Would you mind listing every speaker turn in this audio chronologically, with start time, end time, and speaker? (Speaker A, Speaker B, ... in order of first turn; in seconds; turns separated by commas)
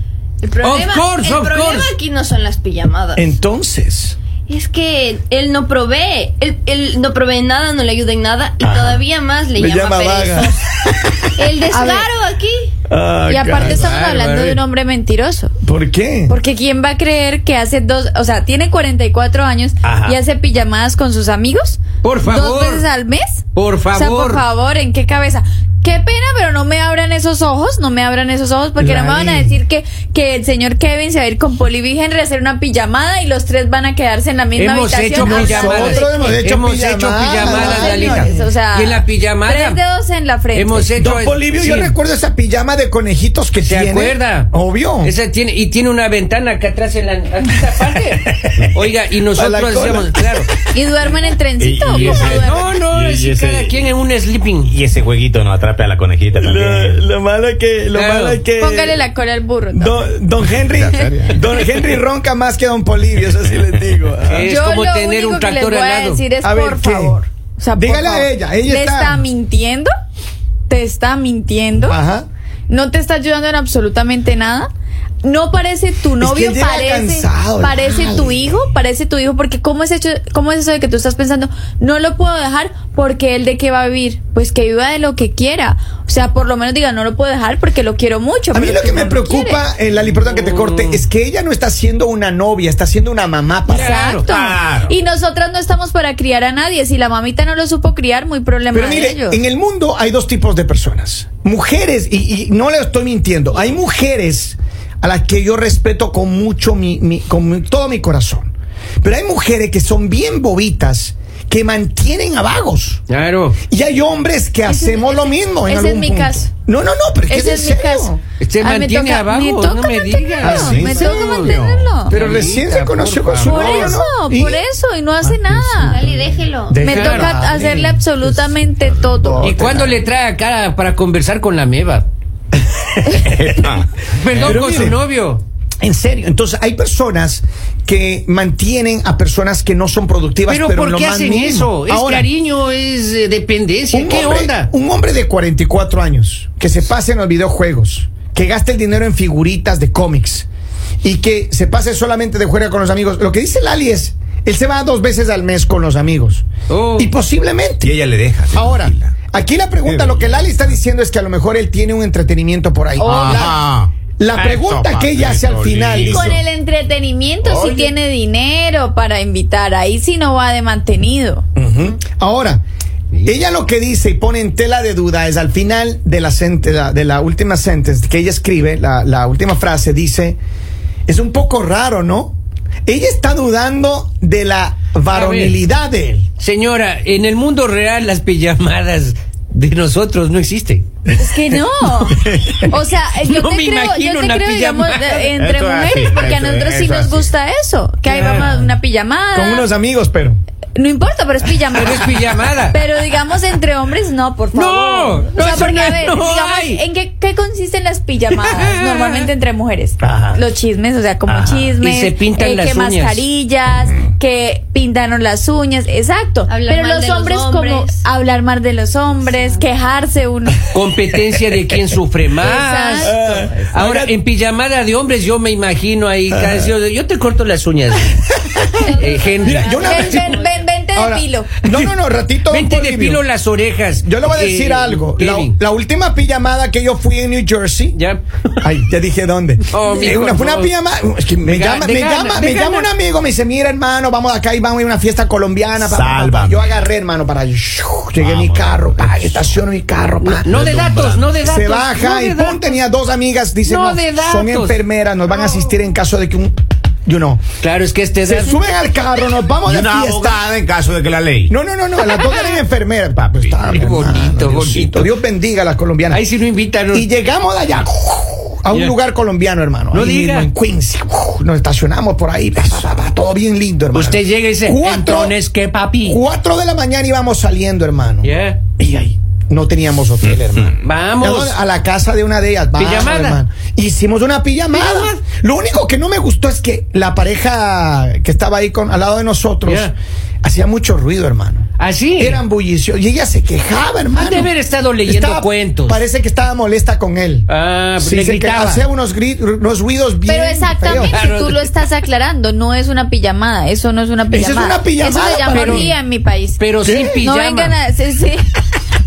Speaker A: 0.4-3.3, Speaker B: 0.6-1.9, Speaker C: 3.2-4.2, Speaker A: 4.5-10.6, Speaker C: 9.6-11.2, Speaker A: 11.3-12.7, Speaker D: 11.7-12.1, Speaker C: 12.9-13.9, Speaker D: 13.3-15.5, Speaker B: 13.6-14.6, Speaker C: 15.6-16.4, Speaker D: 16.3-36.4, Speaker E: 19.8-20.2, Speaker B: 22.0-22.8, Speaker B: 23.6-24.4, Speaker C: 28.8-29.6, Speaker B: 34.5-39.8, Speaker C: 35.2-38.4, Speaker D: 37.4-40.9, Speaker B: 40.5-41.9, Speaker C: 41.0-45.1, Speaker B: 43.6-50.5, Speaker C: 49.3-50.5, Speaker D: 50.7-52.7, Speaker E: 51.6-53.9, Speaker B: 51.9-54.8, Speaker E: 54.7-57.0, Speaker C: 56.4-59.0, Speaker B: 57.9-58.4, Speaker D: 58.6-60.1, Speaker C: 59.7-64.5, Speaker E: 60.6-61.4, Speaker B: 64.2-66.2, Speaker D: 64.4-69.9, Speaker C: 66.4-67.2, Speaker C: 67.7-69.2, Speaker D: 70.7-72.0, Speaker C: 71.8-72.3, Speaker D: 72.7-74.7, Speaker D: 75.2-89.6, Speaker C: 76.2-78.7, Speaker C: 88.5-94.1, Speaker B: 90.3-91.0, Speaker B: 93.7-94.2, Speaker D: 93.7-99.4, Speaker E: 94.2-94.9, Speaker C: 98.7-113.0, Speaker B: 113.1-113.6, Speaker C: 113.7-118.2, Speaker D: 114.7-116.5, Speaker D: 117.3-122.2, Speaker B: 118.4-124.0, Speaker C: 120.4-121.4, Speaker E: 120.5-121.9, Speaker C: 122.0-124.6, Speaker D: 123.4-126.0, Speaker C: 125.2-128.3, Speaker A: 125.8-126.8, Speaker D: 126.8-129.9, Speaker B: 126.8-127.4, Speaker C: 129.0-130.0, Speaker B: 129.4-132.1, Speaker C: 132.5-133.3, Speaker E: 133.1-134.8, Speaker B: 134.1-135.4, Speaker C: 134.3-135.0, Speaker C: 135.8-142.3, Speaker B: 140.5-144.7, Speaker C: 143.9-150.5, Speaker C: 151.0-157.9, Speaker B: 156.7-157.1, Speaker E: 157.8-159.2, Speaker C: 158.5-163.6, Speaker E: 159.8-160.6, Speaker D: 163.0-163.5, Speaker E: 163.0-166.3, Speaker C: 164.2-166.4, Speaker D: 166.0-171.4, Speaker E: 167.4-167.9, Speaker C: 171.6-172.6, Speaker C: 173.2-180.4, Speaker C: 181.1-186.3, Speaker B: 185.1-185.6, Speaker B: 186.4-190.8, Speaker C: 191.1-191.6, Speaker D: 191.2-199.7, Speaker C: 192.1-192.6, Speaker B: 193.2-195.3, Speaker E: 195.3-197.3, Speaker B: 198.1-198.6, Speaker C: 198.4-198.7, Speaker C: 199.3-200.4, Speaker D: 200.8-202.2, Speaker B: 201.7-202.8, Speaker D: 202.7-220.7, Speaker B: 204.5-206.8, Speaker B: 208.3-209.3, Speaker C: 210.1-210.4, Speaker B: 211.8-213.2, Speaker A: 216.5-218.0, Speaker A: 219.3-219.6, Speaker B: 220.7-228.3, Speaker D: 222.4-223.2, Speaker C: 223.0-224.1, Speaker C: 226.3-226.7, Speaker A: 228.7-230.7, Speaker B: 229.0-230.2, Speaker C: 229.4-230.3, Speaker D: 229.8-231.5, Speaker C: 230.9-233.2, Speaker B: 231.6-231.9, Speaker B: 232.5-235.6, Speaker C: 234.0-238.0, Speaker B: 237.9-238.7, Speaker C: 238.6-250.8, Speaker B: 239.7-240.7, Speaker B: 241.4-242.9, Speaker E: 245.8-246.8, Speaker E: 248.2-249.5, Speaker B: 250.2-252.8, Speaker E: 250.5-251.4, Speaker C: 251.4-257.4, Speaker B: 253.6-254.8, Speaker B: 257.6-258.6, Speaker C: 258.2-260.4, Speaker E: 259.7-261.5, Speaker C: 261.5-266.2, Speaker E: 263.2-263.9, Speaker B: 263.6-265.1, Speaker B: 266.1-267.1, Speaker C: 266.9-275.4, Speaker B: 268.7-269.0, Speaker B: 269.9-270.5, Speaker B: 273.9-276.2, Speaker C: 276.0-289.9, Speaker B: 278.2-278.6, Speaker E: 280.2-280.8, Speaker B: 280.8-281.6, Speaker B: 282.8-283.4, Speaker B: 284.7-285.2, Speaker B: 289.6-289.9, Speaker C: 290.4-294.5, Speaker B: 291.8-292.4, Speaker B: 294.1-296.0, Speaker C: 295.0-301.2, Speaker B: 297.5-298.9, Speaker D: 300.2-308.4, Speaker B: 300.9-301.6, Speaker C: 304.3-305.9, Speaker B: 305.5-305.9, Speaker B: 306.6-307.8, Speaker C: 306.8-307.2